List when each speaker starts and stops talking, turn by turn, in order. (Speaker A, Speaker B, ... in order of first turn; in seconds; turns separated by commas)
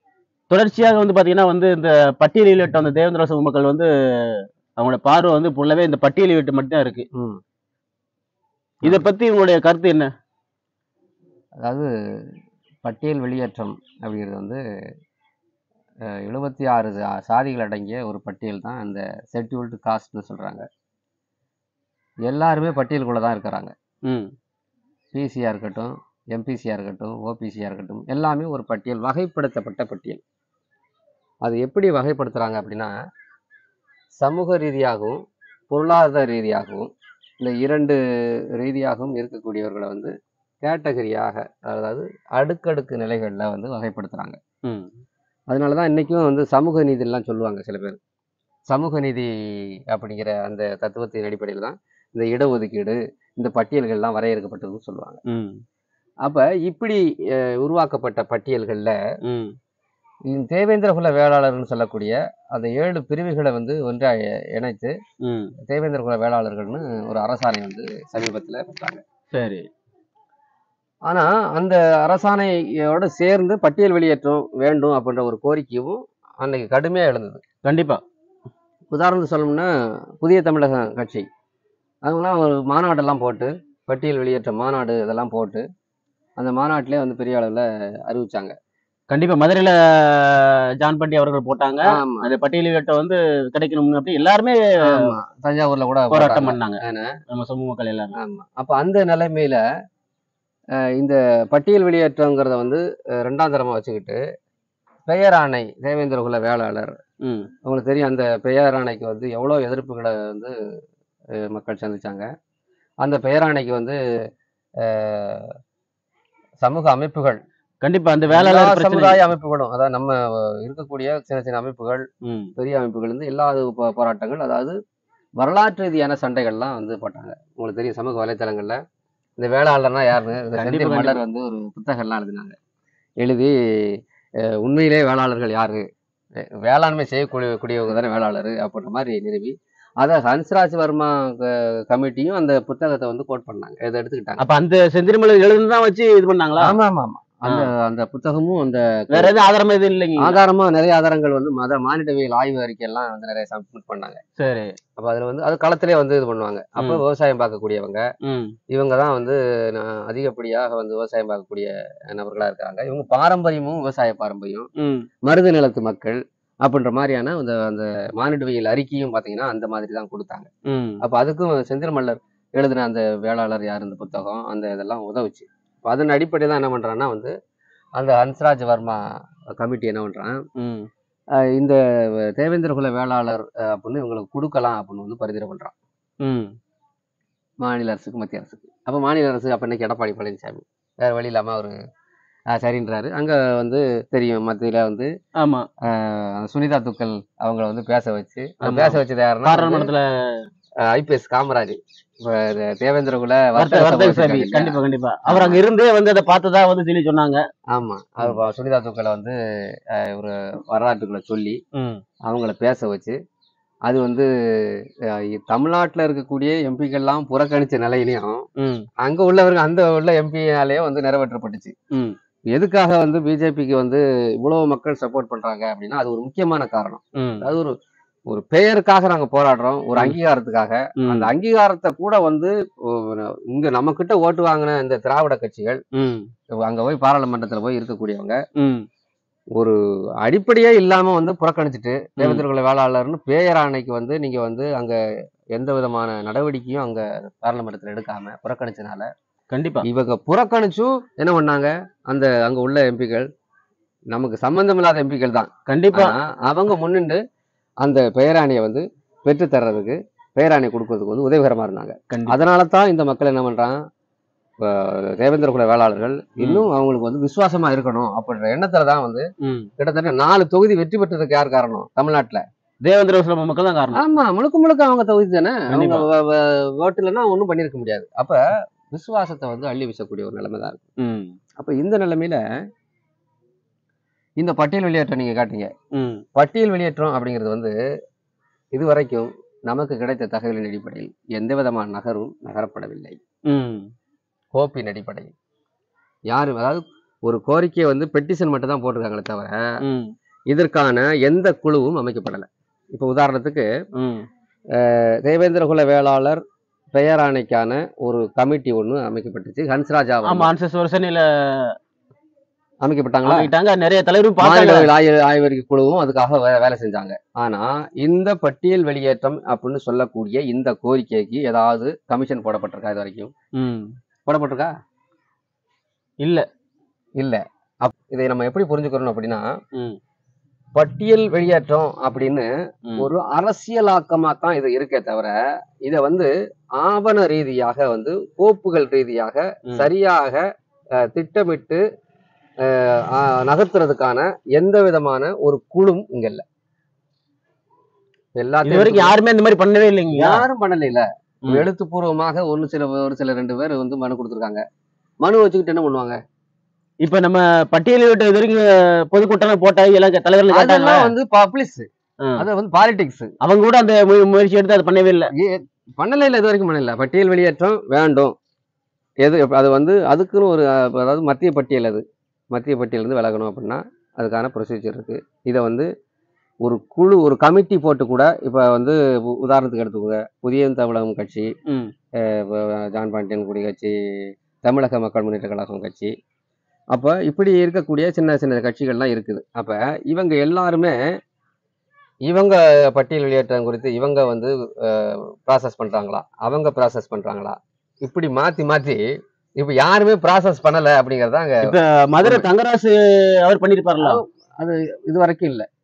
Speaker A: 0.5-7.0, Speaker B: 7.1-7.4, Speaker A: 8.8-10.1, Speaker B: 12.8-14.6, Speaker B: 16.1-20.6, Speaker B: 22.3-23.7, Speaker B: 25.1-30.2, Speaker B: 31.4-32.9, Speaker B: 34.2-35.2, Speaker B: 35.7-38.0, Speaker B: 38.6-44.4, Speaker B: 45.5-48.0, Speaker B: 48.7-55.2, Speaker A: 55.3-55.6, Speaker B: 56.2-59.0, Speaker A: 59.2-59.5, Speaker B: 60.3-64.9, Speaker A: 65.2-65.5, Speaker B: 65.6-69.0, Speaker A: 69.3-69.7, Speaker B: 71.0-77.4, Speaker A: 77.6-78.0, Speaker B: 78.9-79.7, Speaker B: 80.2-81.2, Speaker B: 82.0-85.6, Speaker B: 86.4-88.5, Speaker A: 89.1-94.6, Speaker B: 91.8-92.3, Speaker B: 94.9-97.1, Speaker A: 96.1-98.1, Speaker B: 98.2-99.6, Speaker B: 101.0-104.2, Speaker B: 105.1-107.0, Speaker B: 107.7-110.5, Speaker B: 111.5-112.2, Speaker B: 113.0-114.0, Speaker B: 114.8-115.5, Speaker B: 116.6-117.4, Speaker A: 117.8-119.2, Speaker B: 118.3-122.0, Speaker A: 122.2-122.5, Speaker B: 122.6-124.7, Speaker B: 125.4-128.8, Speaker B: 129.4-132.5, Speaker A: 130.6-131.2, Speaker B: 133.2-134.0, Speaker B: 134.6-135.8, Speaker B: 136.6-144.4, Speaker A: 144.4-146.7, Speaker B: 146.6-149.3, Speaker A: 149.1-150.4, Speaker B: 150.2-154.2, Speaker A: 154.4-154.7, Speaker B: 155.0-158.0, Speaker A: 158.2-158.5, Speaker B: 158.7-164.7, Speaker A: 164.8-165.1, Speaker B: 165.2-170.5, Speaker A: 170.7-171.0, Speaker B: 171.0-177.3, Speaker B: 177.9-179.0, Speaker B: 179.5-180.4, Speaker A: 180.6-180.9, Speaker B: 181.4-181.8, Speaker B: 182.3-185.7, Speaker A: 186.2-186.5, Speaker B: 187.6-191.7, Speaker B: 192.5-195.1, Speaker A: 195.4-195.7, Speaker B: 195.9-199.9, Speaker A: 198.6-200.0, Speaker B: 200.8-205.6, Speaker A: 203.6-207.4, Speaker B: 207.7-209.3, Speaker B: 209.9-211.6, Speaker A: 211.8-212.0, Speaker B: 212.2-213.2, Speaker B: 213.8-218.4, Speaker A: 218.6-218.8, Speaker B: 219.0-221.7, Speaker B: 222.5-227.7, Speaker A: 227.2-227.5, Speaker B: 228.3-235.8, Speaker A: 231.0-231.3, Speaker A: 235.9-236.2, Speaker B: 236.6-238.4, Speaker A: 238.6-238.8, Speaker B: 239.5-245.0, Speaker B: 245.5-249.1, Speaker A: 249.5-249.8, Speaker B: 249.8-253.3, Speaker B: 254.1-257.2, Speaker A: 255.7-256.1, Speaker B: 257.8-263.8, Speaker B: 264.6-269.2, Speaker A: 269.4-269.7, Speaker B: 269.8-272.4, Speaker A: 272.8-274.0, Speaker B: 273.9-278.4, Speaker A: 275.7-276.0, Speaker B: 278.9-280.8, Speaker A: 281.0-281.3, Speaker B: 281.6-282.4, Speaker B: 284.4-285.7, Speaker A: 285.9-286.2, Speaker B: 286.4-287.7, Speaker B: 288.7-293.2, Speaker A: 293.5-293.9, Speaker B: 294.5-295.3, Speaker B: 296.3-299.6, Speaker A: 299.8-300.1, Speaker B: 300.5-303.7, Speaker A: 304.0-304.2, Speaker B: 304.8-306.4, Speaker B: 306.9-310.5, Speaker A: 310.2-311.7, Speaker B: 312.8-313.5, Speaker A: 313.2-314.9, Speaker B: 314.4-323.3, Speaker A: 323.6-323.9, Speaker B: 324.3-324.7, Speaker B: 327.2-329.4, Speaker B: 330.7-332.5, Speaker B: 333.0-335.3, Speaker B: 335.8-340.4, Speaker B: 341.0-341.8, Speaker B: 342.6-346.4, Speaker B: 348.4-349.2, Speaker A: 348.6-350.4, Speaker B: 350.1-354.6, Speaker B: 355.2-356.2, Speaker A: 357.0-361.1, Speaker B: 360.5-361.9, Speaker B: 362.4-363.3, Speaker A: 363.4-365.3, Speaker B: 365.4-368.3, Speaker B: 369.2-375.9, Speaker B: 376.6-381.5, Speaker B: 382.2-383.9, Speaker B: 384.6-386.1, Speaker B: 386.9-390.9, Speaker B: 392.2-399.0, Speaker B: 399.6-401.7, Speaker A: 401.7-404.2, Speaker B: 402.2-402.5, Speaker B: 404.0-405.7